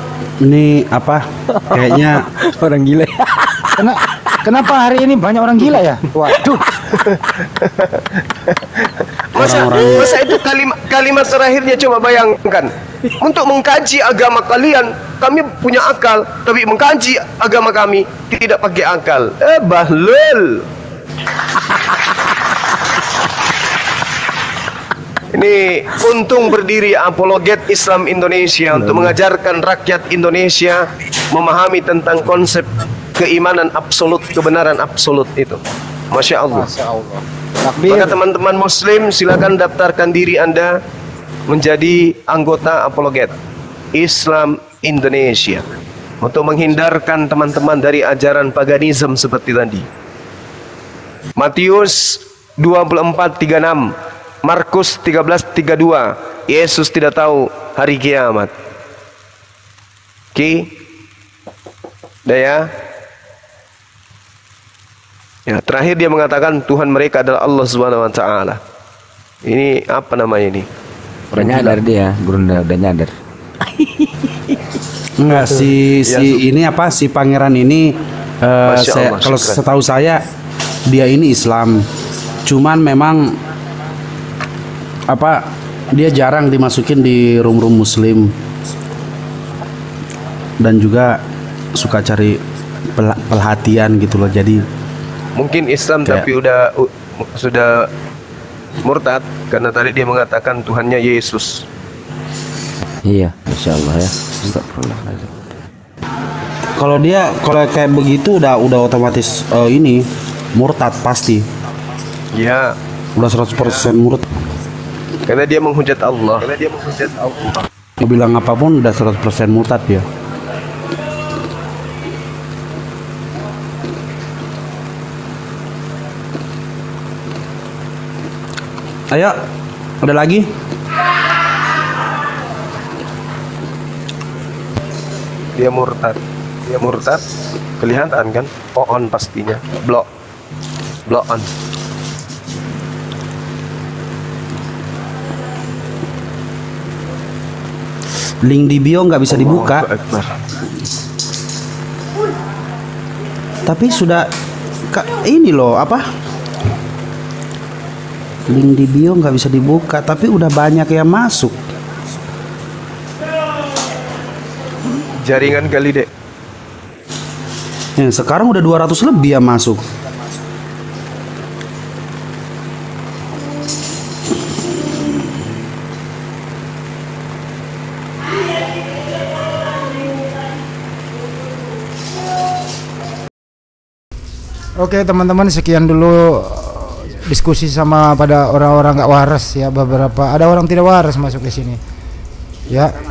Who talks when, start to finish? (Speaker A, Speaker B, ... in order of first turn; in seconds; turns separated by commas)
Speaker A: 0.4-2.3, Speaker B: 1.6-3.7, Speaker C: 3.8-6.6, Speaker D: 6.9-20.7, Speaker A: 9.3-10.1, Speaker D: 25.3-30.8, Speaker D: 31.3-35.6, Speaker D: 36.1-36.7, Speaker C: 36.5-38.2, Speaker D: 37.9-40.7, Speaker D: 41.5-43.4, Speaker D: 44.0-45.6, Speaker D: 46.2-49.9, Speaker D: 51.4-53.9, Speaker D: 54.4-58.5, Speaker D: 60.4-60.7, Speaker D: 62.3-62.7, Speaker D: 65.5-68.6, Speaker D: 69.5-70.7, Speaker B: 71.3-73.1, Speaker D: 71.4-71.8, Speaker A: 75.2-80.2, Speaker D: 76.1-76.4, Speaker D: 78.6-79.6, Speaker A: 80.9-81.8, Speaker A: 82.5-83.4, Speaker A: 85.1-88.3, Speaker A: 90.6-91.2, Speaker A: 91.8-92.4, Speaker A: 93.0-94.6, Speaker D: 95.4-97.9, Speaker D: 98.8-101.7, Speaker B: 103.0-105.3, Speaker A: 106.8-111.5, Speaker D: 112.3-112.7, Speaker A: 113.2-114.3, Speaker D: 115.3-117.6, Speaker A: 118.0-120.0, Speaker A: 129.1-129.4, Speaker A: 130.0-130.5, Speaker D: 135.6-137.2, Speaker D: 137.8-140.1, Speaker D: 141.1-141.5, Speaker A: 148.4-149.9, Speaker D: 149.3-150.3, Speaker A: 153.7-154.3, Speaker A: 154.9-156.0, Speaker A: 158.5-161.6, Speaker D: 165.2-166.1, Speaker A: 168.0-169.8, Speaker C: 184.8-191.8, Speaker C: 192.7-192.9